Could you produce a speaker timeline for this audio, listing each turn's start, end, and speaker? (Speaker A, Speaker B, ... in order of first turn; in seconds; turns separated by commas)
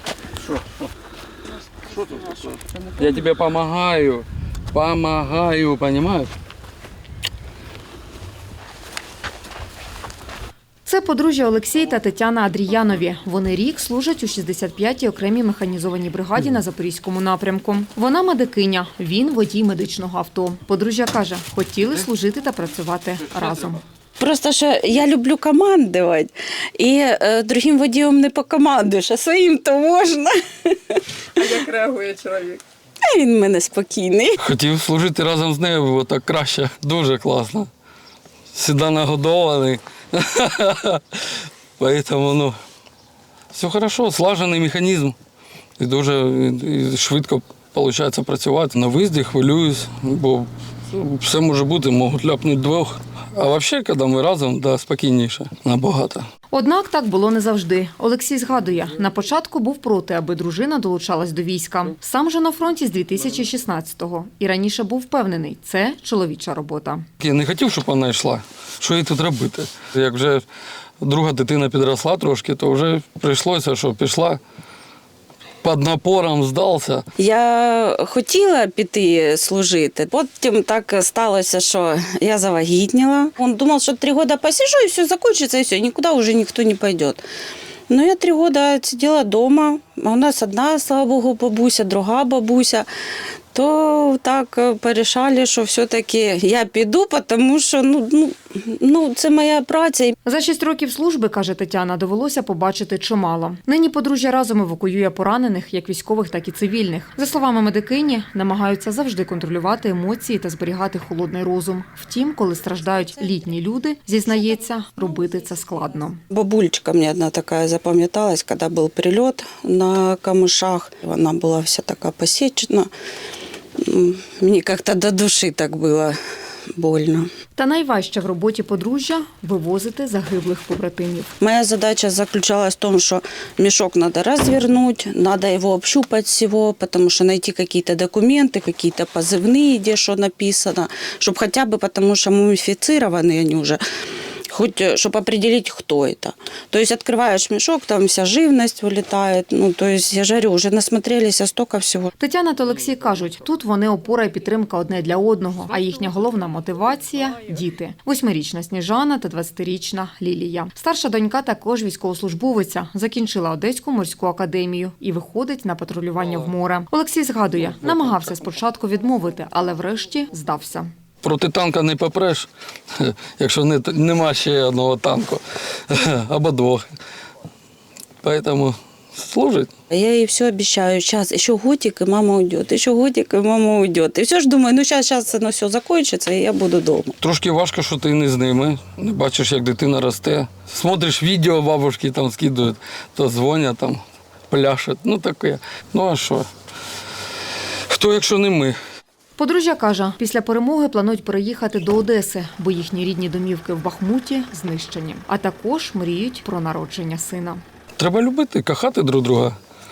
Speaker A: 1.9-6.3, Speaker B: 10.8-23.8, Speaker C: 24.2-34.4, Speaker A: 34.4-37.7, Speaker A: 38.5-41.3, Speaker A: 41.8-42.5, Speaker A: 43.5-45.1, Speaker A: 45.8-56.2, Speaker B: 56.5-67.0, Speaker A: 67.2-70.4, Speaker A: 71.0-74.4, Speaker A: 75.6-77.0, Speaker C: 77.2-87.2, Speaker C: 87.9-92.9, Speaker C: 93.5-100.1, Speaker B: 100.2-116.2, Speaker C: 116.3-122.9, Speaker C: 123.8-126.2, Speaker C: 126.7-127.3, Speaker B: 127.5-131.3, Speaker C: 131.4-143.8, Speaker C: 144.5-152.1, Speaker B: 152.2-170.9, Speaker A: 171.2-176.9, Speaker A: 178.2-179.7, Speaker C: 179.9-187.2, Speaker A: 187.2-196.5, Speaker A: 197.9-198.8, Speaker B: 199.3-207.6, Speaker A: 208.0-209.6